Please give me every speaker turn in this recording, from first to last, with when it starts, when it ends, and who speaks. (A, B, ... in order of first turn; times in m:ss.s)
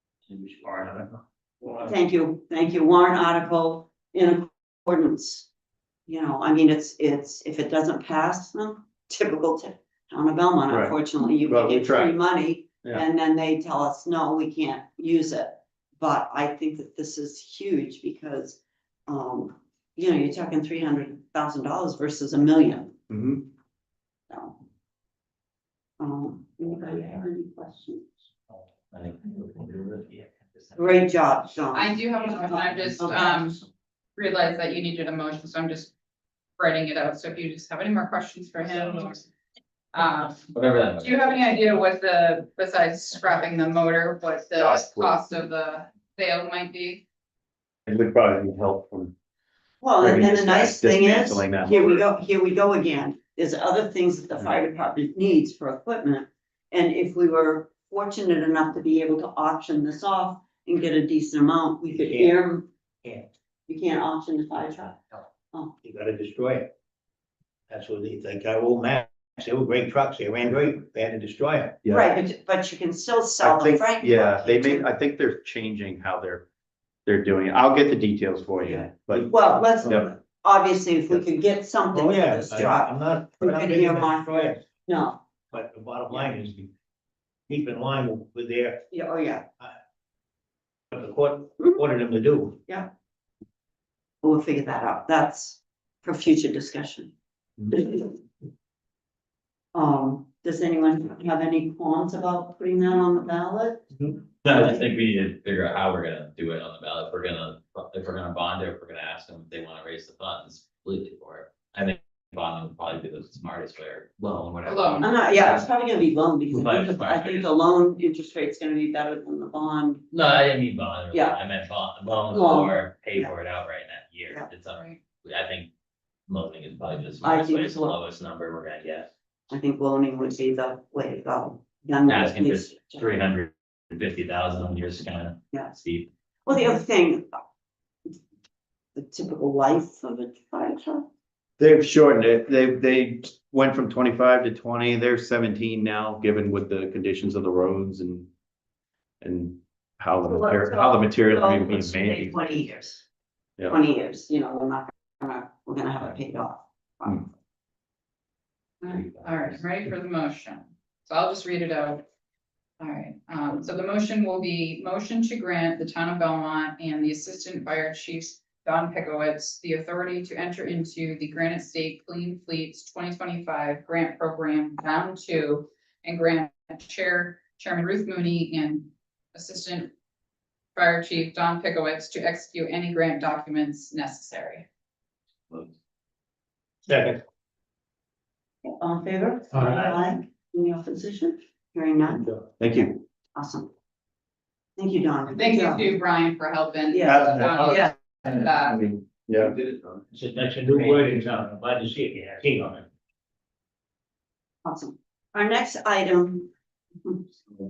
0:00.3-0:01.1 A
0:01.8-0:05.5 B
0:06.1-0:22.9 B
0:10.7-0:12.2 C
0:23.1-0:23.4 C
0:24.3-0:24.6 B
0:26.0-0:28.0 B
0:28.9-0:31.0 D
0:30.8-0:32.0 B
0:31.7-0:33.6 E
0:34.2-0:35.9 E
0:36.6-0:39.2 E
0:39.9-0:47.0 E
0:40.5-0:41.3 D
0:44.6-0:45.1 C
0:47.9-0:49.1 C
0:49.8-1:02.7 B
0:50.0-0:52.0 C
1:01.8-1:02.4 A
1:03.0-1:03.3 A
1:03.7-1:05.0 B
1:05.8-1:06.7 A
1:07.7-1:11.8 A
1:11.8-1:12.1 C
1:11.9-1:14.9 B
1:13.4-1:16.4 C
1:17.0-1:19.3 C
1:18.6-1:25.2 B
1:19.8-1:20.1 C
1:21.9-1:24.6 A
1:25.5-1:26.7 A
1:27.5-1:28.8 A
1:28.9-1:29.4 B
1:30.9-1:32.6 A
1:34.2-1:37.1 B
1:37.8-1:38.1 B
1:39.7-1:43.9 B
1:44.4-1:55.6 D
1:44.4-1:44.8 B
1:54.6-1:55.5 E
1:55.0-2:00.0 B
1:56.5-1:57.5 D
2:00.1-2:05.7 D
2:01.1-2:01.4 B
2:02.3-2:03.3 B
2:04.7-2:05.0 E
2:06.3-2:09.1 D
2:07.2-2:08.0 B
2:09.5-2:13.1 B
2:12.0-2:16.1 D
2:15.5-2:15.8 B
2:16.4-2:17.4 B
2:18.9-2:21.0 B
2:21.6-2:28.3 C
2:29.2-2:32.4 C
2:30.2-2:33.0 B
2:33.7-2:37.3 B
2:38.8-2:42.0 E
2:38.9-2:39.6 D
2:42.8-2:59.9 E
3:00.7-3:04.7 E
3:06.9-3:07.2 A
3:08.6-3:12.2 B
3:09.6-3:09.9 A
3:12.6-3:13.0 C
3:13.4-3:13.7 B
3:14.8-3:15.9 B
3:15.4-3:18.9 E
3:16.9-3:17.9 B
3:17.3-3:17.8 C
3:19.1-3:19.5 C
3:19.7-3:22.8 A
3:24.6-3:26.5 B